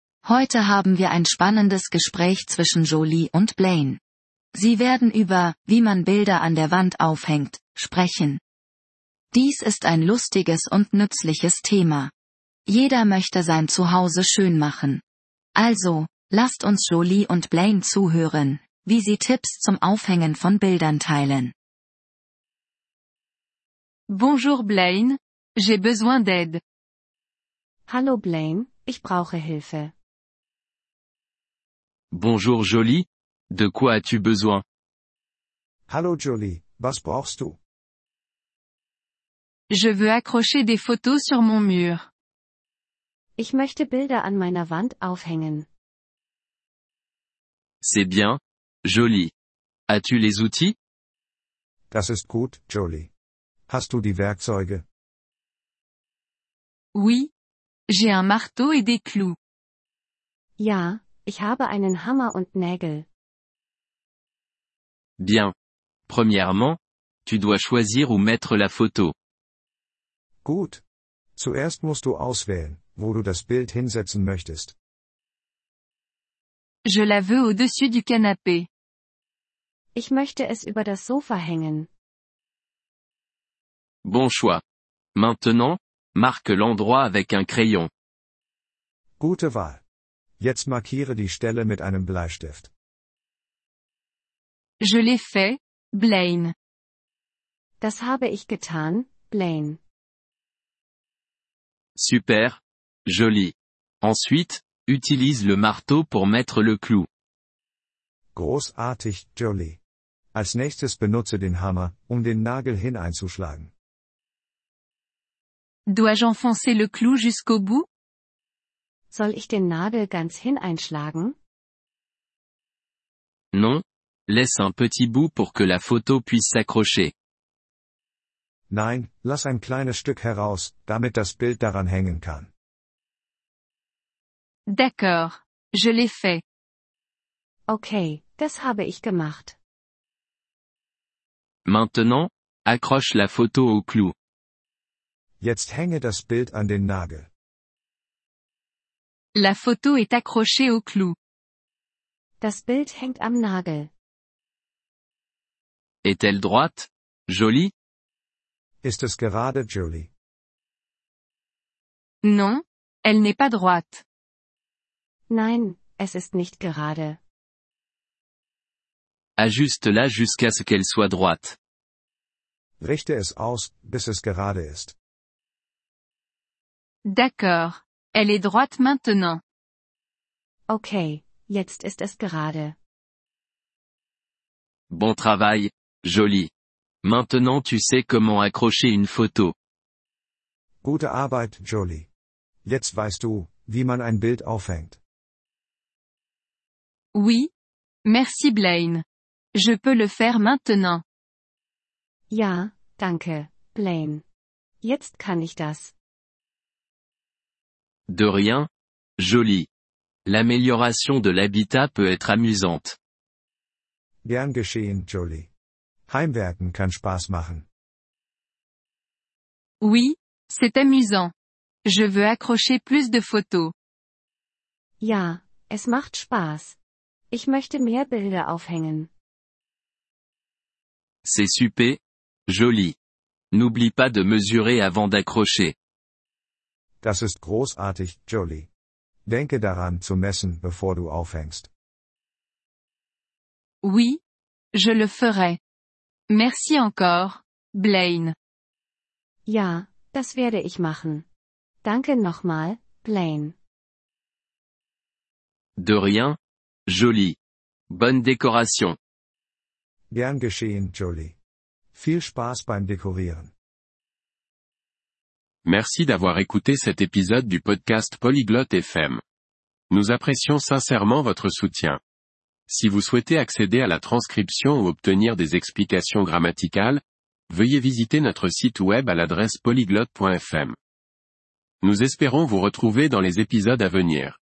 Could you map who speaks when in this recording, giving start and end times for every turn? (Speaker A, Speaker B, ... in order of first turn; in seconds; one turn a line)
Speaker A: 0.2-4.0
Speaker A: 4.5-8.4
Speaker A: 9.3-12.1
Speaker A: 12.7-15.0
Speaker A: 15.5-21.5
Speaker B: 24.1-26.6
Speaker C: 27.9-29.9
Speaker D: 32.1-34.6
Speaker E: 35.9-37.6
Speaker B: 39.7-42.0
Speaker C: 43.4-45.7
Speaker D: 47.8-49.3
Speaker D: 49.9-50.8
Speaker E: 51.9-53.1
Speaker E: 53.7-54.8
Speaker B: 56.9-57.3
Speaker B: 57.9-59.4
Speaker C: 60.6-63.0
Speaker D: 65.2-65.5
Speaker D: 66.1-69.1
Speaker E: 70.4-70.8
Speaker E: 71.4-74.7
Speaker B: 76.8-78.7
Speaker C: 79.9-81.9
Speaker D: 84.0-84.6
Speaker D: 85.1-87.9
Speaker E: 89.2-89.8
Speaker E: 90.4-92.7
Speaker B: 94.8-96.5
Speaker C: 97.8-99.8
Speaker D: 102.0-107.1
Speaker E: 108.3-109.8
Speaker E: 110.3-113.7
Speaker B: 115.9-117.8
Speaker C: 119.1-121.3
Speaker D: 123.5-127.1
Speaker E: 128.7-132.5
Speaker B: 134.7-136.4
Speaker C: 137.7-139.6
Speaker D: 141.7-144.1
Speaker E: 145.4-147.3
Speaker B: 149.3-151.1
Speaker C: 152.4-153.9
Speaker D: 156.0-157.7
Speaker E: 158.8-160.1
Speaker B: 162.2-164.0
Speaker C: 165.3-167.2
Speaker D: 169.4-171.6
Speaker E: 172.8-174.9
Speaker B: 177.1-179.4
Speaker C: 180.7-182.7
Speaker D: 184.9-186.5
Speaker D: 187.0-189.5
Speaker E: 190.8-192.1
Speaker E: 192.6-195.0
Speaker B: 197.1-197.5
Speaker B: 198.0-199.0
Speaker B: 199.5-201.0
Speaker C: 202.3-204.2
Speaker C: 204.8-205.9
Speaker D: 208.1-208.7
Speaker D: 209.2-209.7
Speaker D: 210.2-213.0
Speaker E: 214.2-215.5
Speaker E: 216.1-217.7
Speaker B: 219.8-221.3
Speaker B: 221.8-223.7
Speaker C: 225.0-226.8
Speaker C: 227.3-229.1
Speaker D: 231.2-232.9
Speaker D: 233.5-235.7
Speaker E: 237.0-238.7
Speaker E: 239.2-241.7
Speaker B: 243.8-244.2
Speaker B: 244.7-245.6
Speaker B: 246.3-248.3
Speaker C: 249.5-251.2
Speaker C: 251.8-253.5
Speaker D: 255.8-256.4
Speaker D: 256.9-257.4
Speaker D: 257.9-259.0
Speaker E: 260.1-261.4
Speaker E: 261.9-263.5
Speaker F: 265.6-269.2
Speaker F: 269.9-272.0
Speaker F: 272.7-280.8
Speaker F: 281.8-284.4